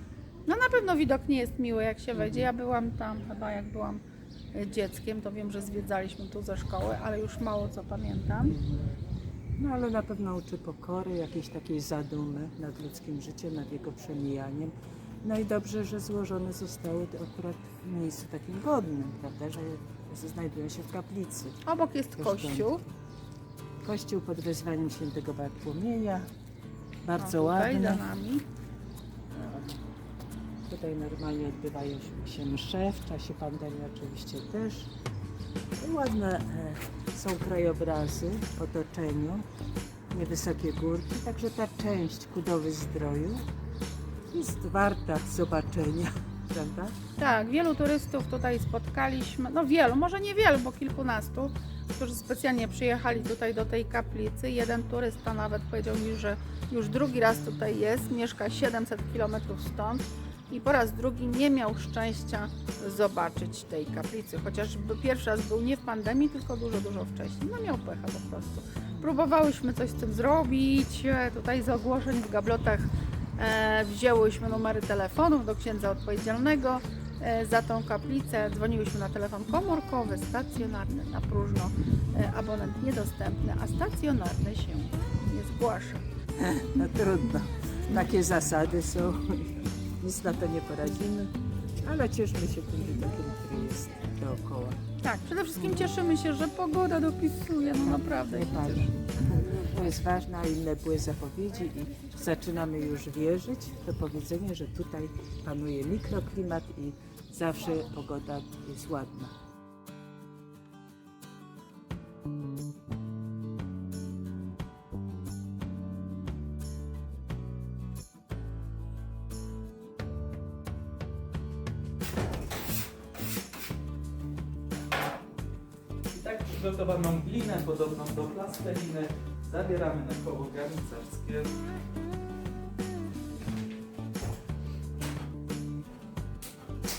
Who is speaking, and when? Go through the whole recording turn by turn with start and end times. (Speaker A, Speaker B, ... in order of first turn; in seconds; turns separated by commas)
Speaker A: 0.5-4.0, Speaker B: 2.1-2.5, Speaker A: 4.5-8.6, Speaker B: 9.6-21.6, Speaker A: 21.6-22.8, Speaker B: 22.2-22.8, Speaker B: 23.8-26.3, Speaker B: 27.0-28.1, Speaker A: 27.2-28.4, Speaker B: 29.3-29.8, Speaker B: 30.7-34.9, Speaker B: 35.8-39.5, Speaker B: 40.1-43.4, Speaker B: 44.3-47.0, Speaker A: 47.2-86.1, Speaker B: 86.4-94.8, Speaker A: 95.0-98.9, Speaker B: 95.6-95.9, Speaker B: 97.8-109.3, Speaker C: 126.1-131.5